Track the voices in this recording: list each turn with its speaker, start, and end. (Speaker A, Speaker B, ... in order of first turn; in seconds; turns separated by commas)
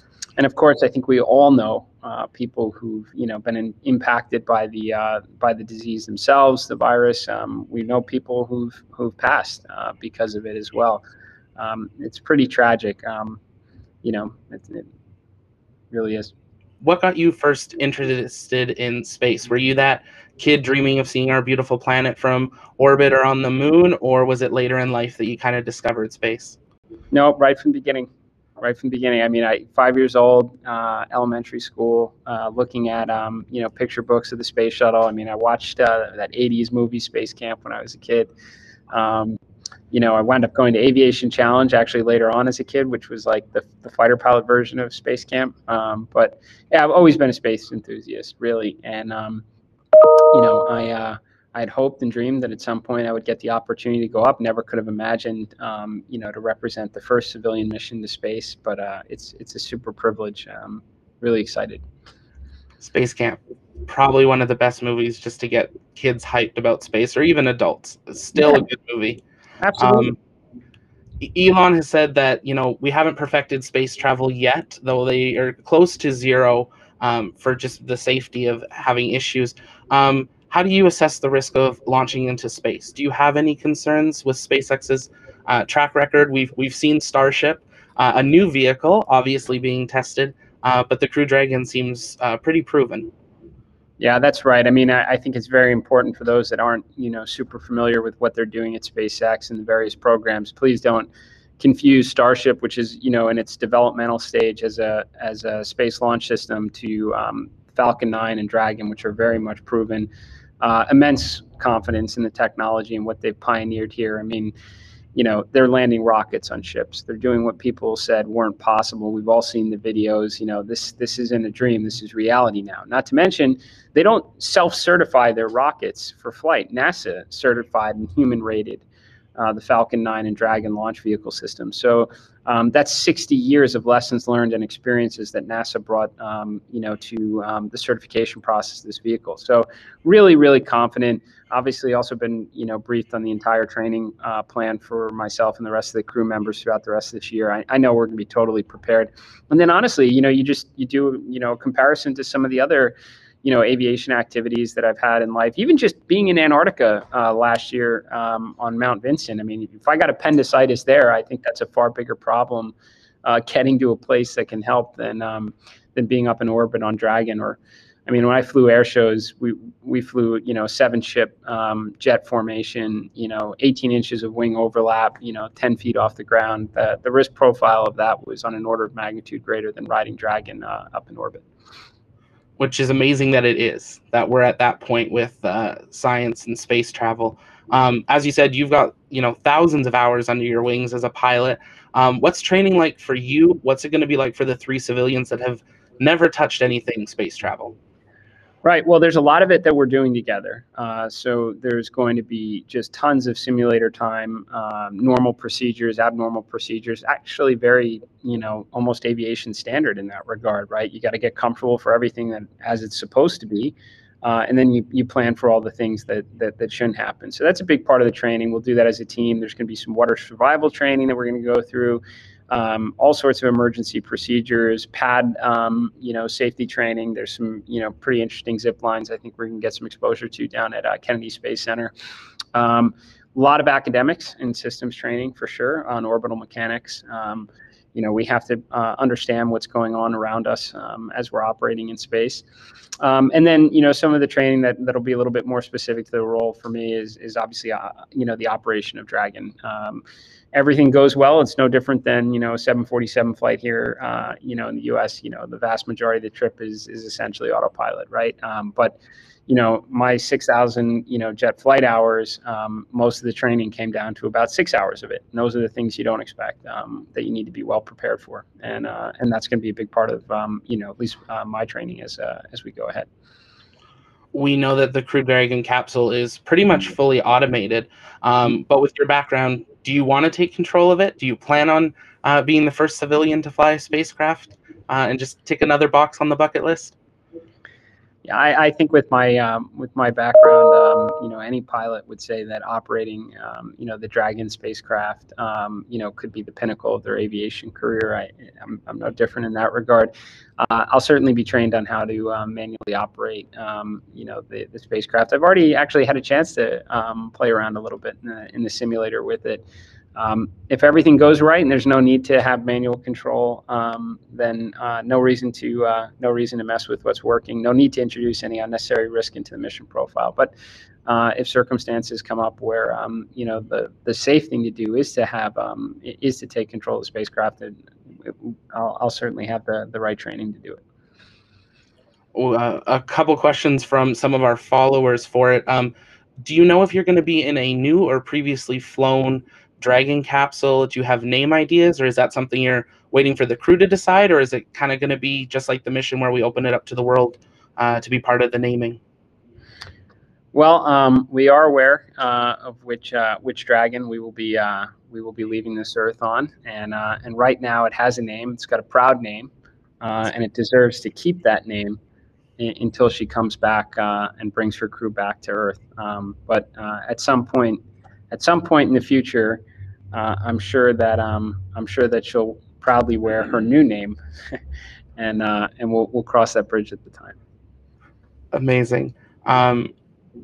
Speaker A: 0.4-11.0, Speaker A: 11.6-13.4, Speaker A: 14.0-14.9, Speaker A: 15.9-16.3, Speaker B: 16.8-26.6, Speaker A: 27.1-28.1, Speaker A: 28.6-38.3, Speaker A: 38.9-39.4, Speaker A: 39.9-49.4, Speaker A: 50.3-61.8, Speaker B: 62.8-69.2, Speaker A: 68.4-68.6, Speaker A: 69.6-70.2, Speaker B: 69.8-70.2, Speaker B: 71.2-93.1, Speaker A: 94.0-114.5, Speaker A: 115.2-128.8, Speaker A: 129.4-181.4, Speaker B: 182.6-197.8, Speaker A: 198.6-231.9, Speaker A: 232.5-242.4, Speaker A: 243.0-273.1, Speaker B: 274.3-286.9, Speaker A: 288.2-309.6, Speaker A: 310.2-320.5, Speaker A: 321.1-330.8, Speaker B: 332.4-349.0, Speaker A: 350.5-362.0, Speaker A: 362.6-367.8, Speaker A: 368.3-374.6, Speaker A: 375.2-377.4, Speaker B: 378.5-379.9